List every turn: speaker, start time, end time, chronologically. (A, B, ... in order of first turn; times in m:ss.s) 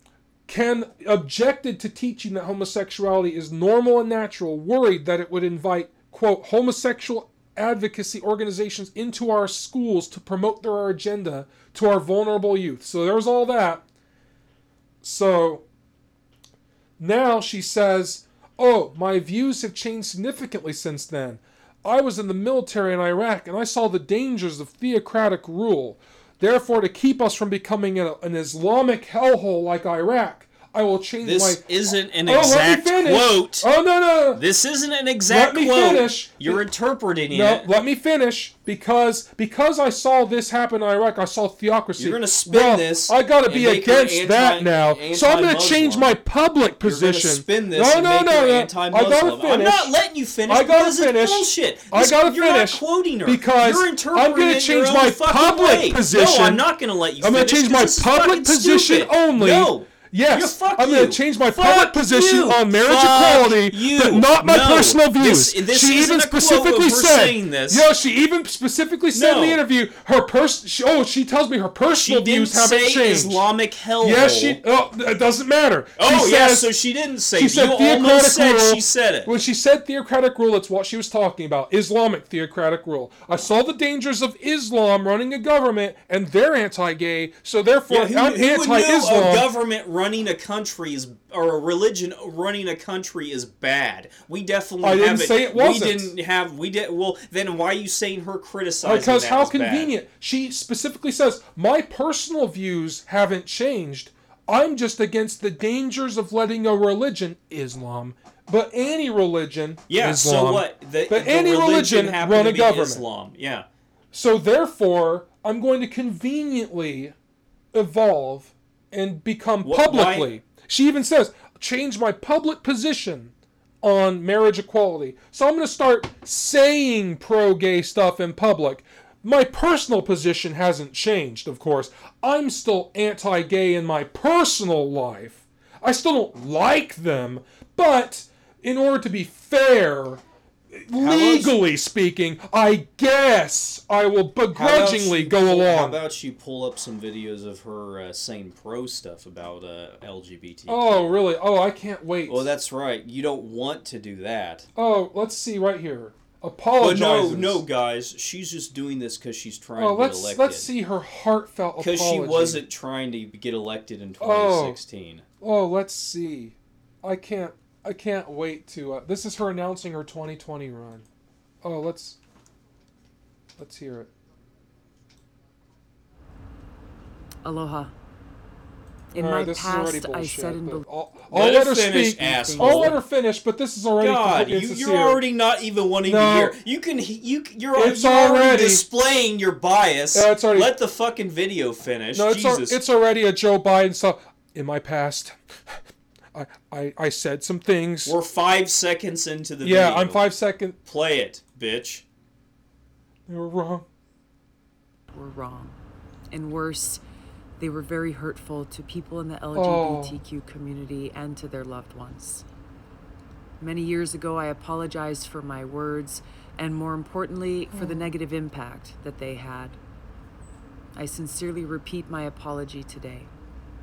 0:00.5-0:13.8 A
0:15.0-0:15.7 A
0:17.0-0:31.7 A
0:31.2-0:33.7 B
0:32.2-0:34.4 A
0:34.3-0:37.7 B
0:35.3-0:36.6 A
0:37.3-0:50.0 A
0:42.0-0:46.2 B
0:46.8-1:07.9 B
0:50.5-0:56.7 A
0:57.2-1:13.4 A
1:09.1-1:09.6 B
1:11.8-1:14.6 B
1:14.0-1:16.7 A
1:16.0-1:19.3 B
1:17.4-1:29.5 A
1:27.9-1:39.9 B
1:34.8-1:36.1 A
1:38.8-1:53.0 A
1:49.9-1:53.7 B
1:54.1-1:57.1 A
1:57.7-2:26.0 A
1:59.6-2:00.4 B
2:21.0-2:21.6 B
2:24.5-2:31.1 B
2:30.7-2:32.5 A
2:32.3-2:34.7 B
2:34.8-2:37.6 A
2:36.8-2:40.7 B
2:39.8-2:42.6 A
2:41.8-2:45.3 B
2:44.2-2:44.8 A
2:45.4-2:51.1 A
2:51.6-2:52.2 A
2:53.6-2:54.1 A
2:57.4-2:57.9 C
2:59.1-3:00.9 C
2:59.2-3:05.2 A
3:01.3-3:03.0 B
3:02.5-3:03.0 C
3:04.0-3:12.8 B
3:06.0-3:06.6 A
3:07.8-3:08.8 A
3:10.1-3:10.7 A
3:12.2-3:15.8 A
3:16.3-3:18.2 A
3:18.1-3:20.3 B
3:19.6-3:20.8 A
3:20.8-3:22.0 B
3:23.3-3:23.9 A
3:25.1-3:25.8 C
3:26.3-3:27.0 C
3:27.6-3:32.4 C
3:29.5-3:30.2 A
3:33.6-3:39.8 C
3:37.7-3:38.1 A
3:41.0-3:43.3 C